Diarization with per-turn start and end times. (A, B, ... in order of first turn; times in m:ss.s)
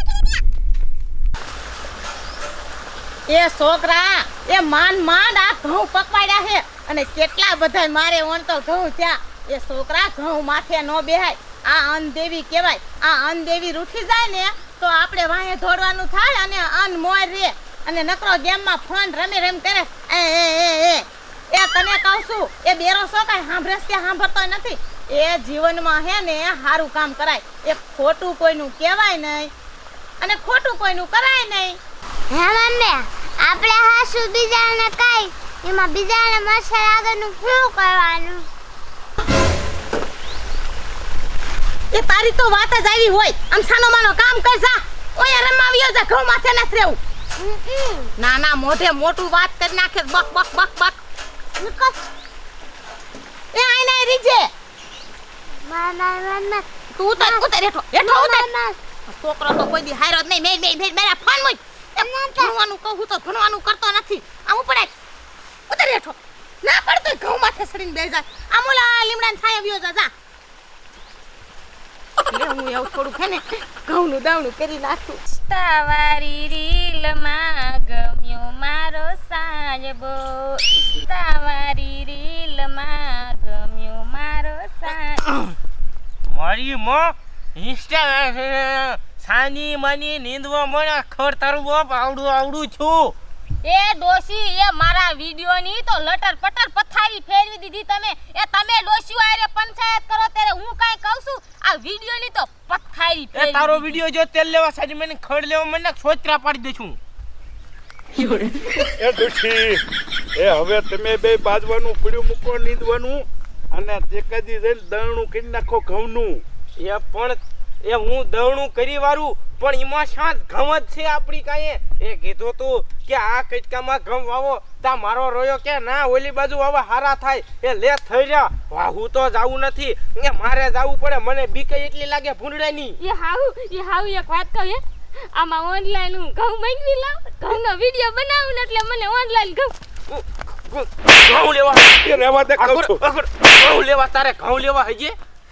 0:03.3-0:29.5 A
0:30.2-0:31.8 A
0:32.3-0:38.4 B
0:41.9-0:47.0 A
0:47.4-0:48.0 B
0:48.2-0:51.0 A
0:51.6-0:51.9 A
0:53.5-0:54.5 A
0:55.6-0:56.6 B
0:57.0-0:58.5 A
0:57.2-0:57.5 B
0:58.0-0:58.8 B
0:59.1-1:04.9 A
1:05.7-1:10.1 A
1:12.3-1:15.2 A
1:15.3-1:25.3 C
1:26.3-1:33.1 D
1:33.6-1:44.0 C
1:43.3-1:47.0 D
1:49.0-1:49.8 E
1:50.3-1:56.4 E
1:56.8-2:13.0 D
2:13.0-2:19.7 C
2:20.1-2:25.2 D
2:22.0-2:23.0 E